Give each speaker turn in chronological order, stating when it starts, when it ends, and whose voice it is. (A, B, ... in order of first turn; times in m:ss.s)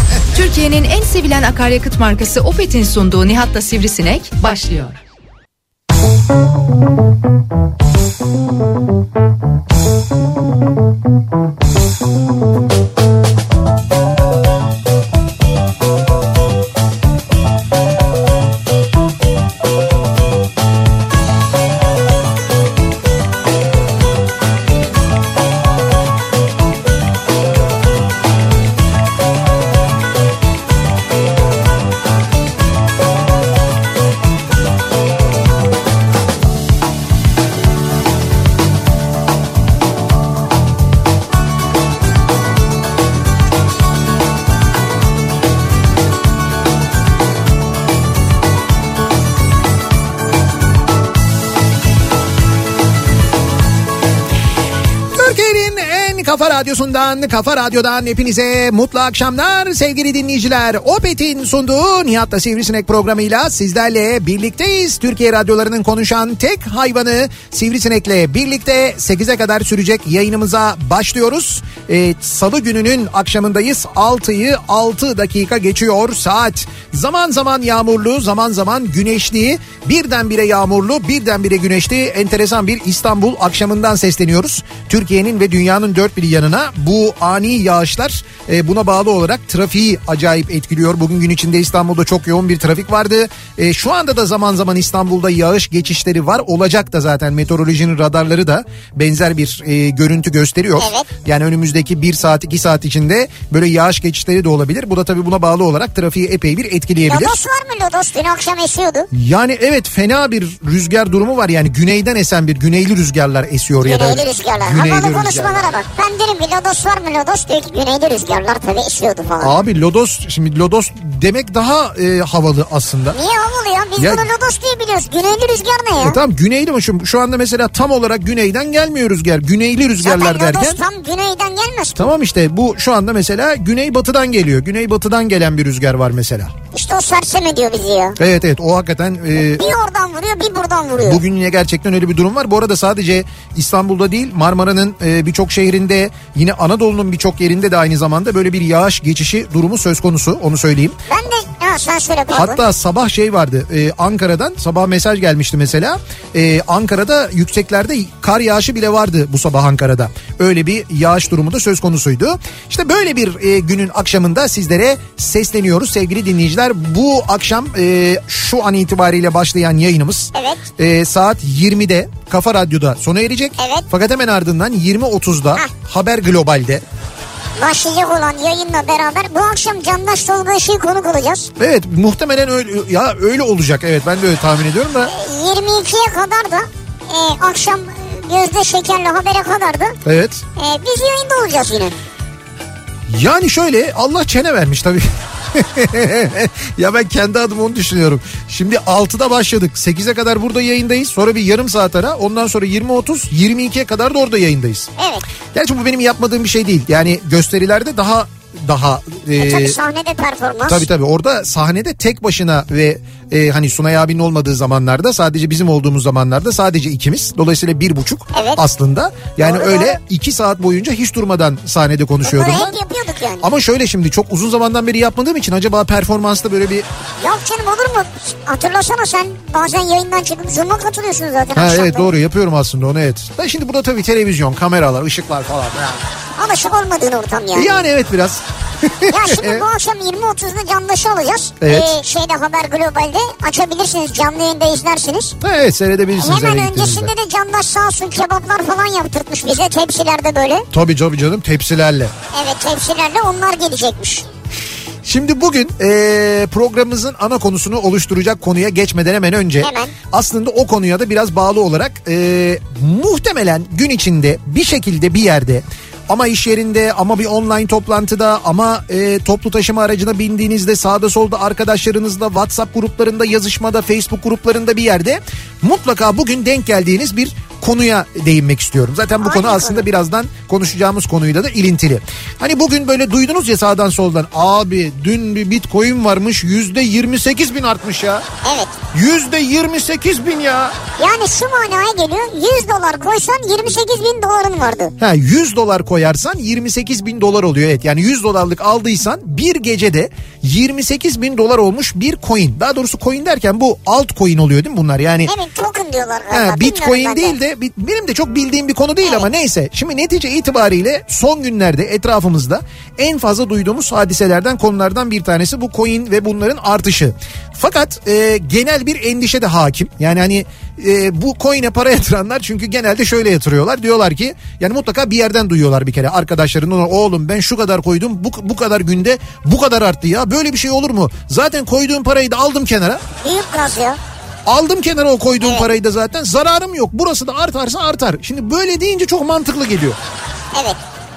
0:00.3-0:05.0 A
0:55.1-1:47.4 B
1:40.8-1:41.1 C
1:47.1-1:49.1 C
1:49.1-1:55.8 B
1:53.8-1:59.5 C
1:59.4-2:03.2 B
2:03.1-2:06.2 C
2:04.0-2:04.3 B
2:06.0-2:10.8 B
2:10.0-2:12.1 C
2:12.0-2:16.5 B
2:16.7-2:18.2 C
2:18.2-2:19.7 B
2:19.4-2:21.2 C
2:21.0-2:31.0 B
2:31.1-2:32.6 C
2:32.3-2:56.8 B
2:50.3-2:50.6 C
2:53.6-2:53.8 C
2:57.6-3:01.5 C
3:01.6-3:05.1 B
3:05.0-3:10.0 C
3:10.0-3:10.4 B
3:10.6-3:12.0 C
3:13.1-3:24.9 B
3:25.0-3:25.2 C
3:25.5-3:29.8 B
3:29.3-3:30.8 C
3:30.7-3:42.8 B
3:38.3-3:38.6 C
3:39.4-3:40.0 C
3:42.2-3:43.5 C
3:43.4-3:46.8 B
3:47.2-3:52.1 C
3:51.5-3:56.0 B
3:56.4-3:57.8 C
3:57.5-3:59.6 B
3:59.1-4:05.4 C
4:01.6-4:01.9 B
4:05.4-4:07.1 B
4:06.2-4:10.7 C
4:10.7-4:12.1 B
4:12.3-4:14.2 C
4:15.0-4:48.2 B
4:19.6-4:19.9 C
4:39.2-4:39.9 C
4:48.4-4:48.8 C
4:48.9-4:50.8 B
4:51.0-4:54.9 C
4:55.0-5:05.3 B
5:05.2-5:07.4 C
5:06.3-5:33.0 B
5:33.2-5:34.0 C
5:34.4-5:40.0 B
5:40.5-5:40.8 C